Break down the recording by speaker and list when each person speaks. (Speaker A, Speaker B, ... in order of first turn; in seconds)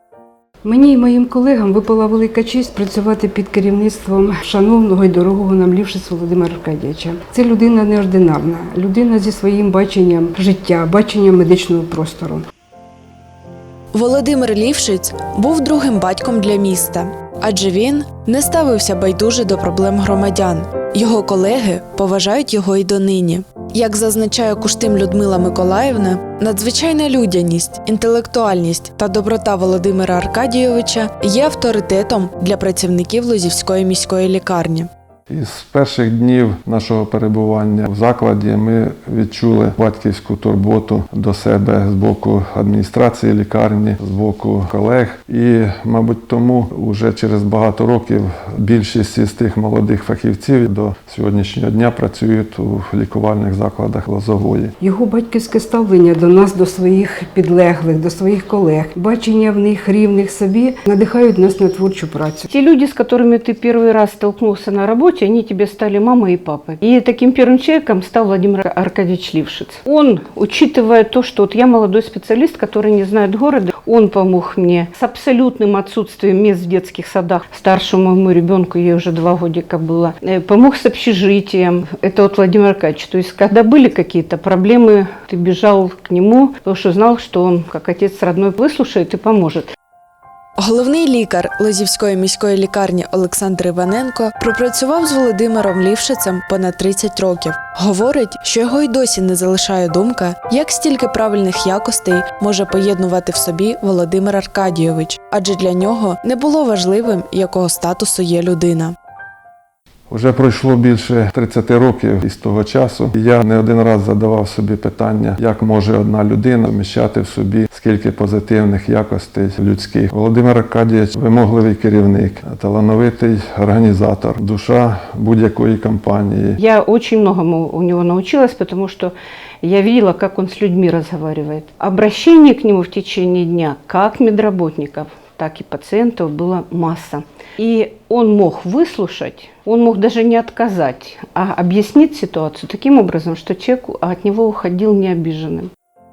Speaker A: 0.6-12.4, 54.8-62.5
Speaker B: 13.9-34.9, 90.6-109.0
Speaker C: 35.3-54.7, 110.1-126.6
Speaker D: 62.5-89.7, 126.6-145.7